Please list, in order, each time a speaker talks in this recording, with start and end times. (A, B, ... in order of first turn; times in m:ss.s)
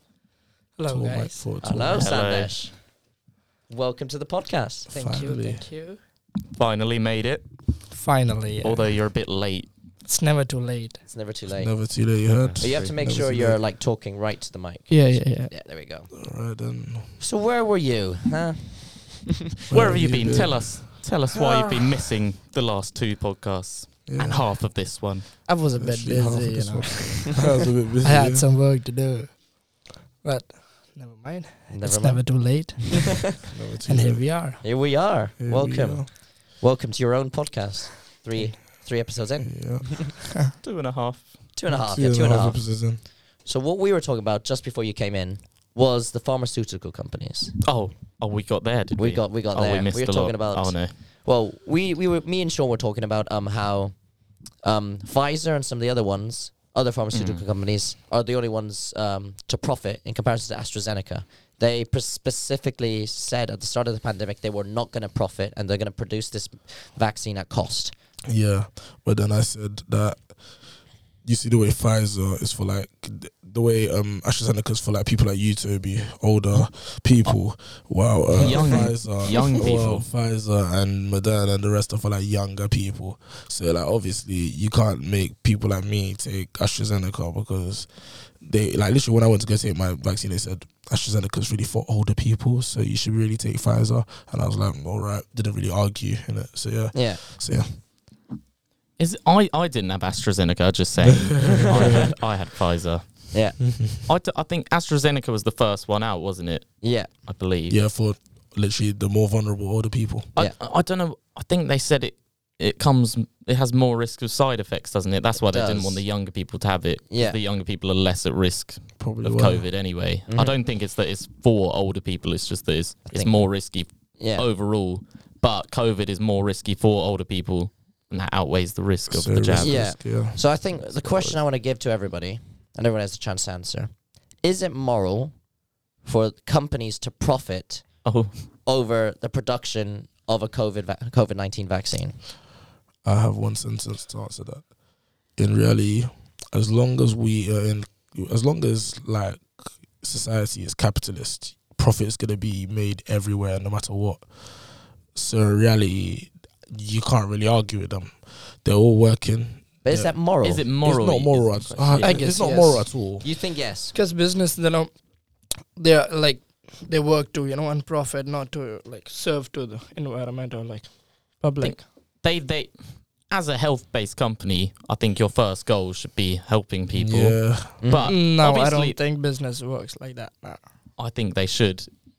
0:00.8-0:01.4 A
0:00.9-0:02.1 B
0:01.6-0:02.7 C
0:01.9-0:02.5 D
0:03.7-0:04.9 C
0:04.9-0:05.6 B
0:04.9-0:06.0 A
0:06.5-0:07.5 D
0:07.9-0:08.8 A
0:08.6-0:09.7 D
0:10.0-0:11.0 A
0:11.0-0:11.7 C
0:11.5-0:13.6 B
0:12.4-0:12.9 D
0:12.6-0:16.1 C
0:14.9-0:15.5 A
0:16.1-0:17.2 B
0:17.2-0:19.4 C
0:19.7-0:20.8 B
0:19.7-0:25.4 D
0:21.4-0:21.7 C
0:24.0-0:24.5 B
0:25.4-0:27.5 A
0:25.7-0:28.5 B
0:28.0-0:34.6 A
0:31.7-0:32.8 C
0:33.5-0:34.6 B
0:34.6-0:39.9 C
0:35.4-0:36.1 B
0:39.4-0:40.0 B
0:40.6-0:41.5 D
0:41.5-0:42.8 C
0:41.7-0:43.0 B
0:43.4-0:47.6 C
0:47.6-0:50.9 D
0:49.0-0:53.9 C
0:54.6-1:07.9 C
0:57.1-0:57.4 D
1:08.2-1:37.7 B
1:18.4-1:20.0 D
1:36.9-1:37.2 C
1:39.0-1:47.8 D
1:41.2-1:42.0 B
1:41.5-1:42.0 C
1:43.3-1:43.6 C
1:43.7-1:44.0 B
1:46.8-1:47.1 C
1:47.7-1:50.3 B
1:50.4-2:09.9 D
1:55.4-1:56.0 C
1:57.1-1:57.4 C
1:59.0-1:59.6 B
2:00.3-2:00.5 C
2:03.1-2:03.5 C
2:04.2-2:04.4 C
2:09.1-2:11.3 B
2:09.6-2:15.3 C
2:16.0-2:18.0 C
2:18.0-2:18.4 D
2:18.6-2:22.2 C
2:23.0-2:24.6 B
2:25.4-2:40.1 B
2:39.8-2:40.6 C
2:40.4-2:42.2 D
2:40.8-2:43.3 B
2:42.0-2:42.8 A
2:43.2-2:43.9 C
2:43.9-2:44.9 A
2:45.8-2:51.8 A
2:51.6-2:59.0 D
2:56.9-2:57.8 B
2:57.8-2:58.2 C
2:58.0-3:00.6 A
3:01.0-3:01.9 D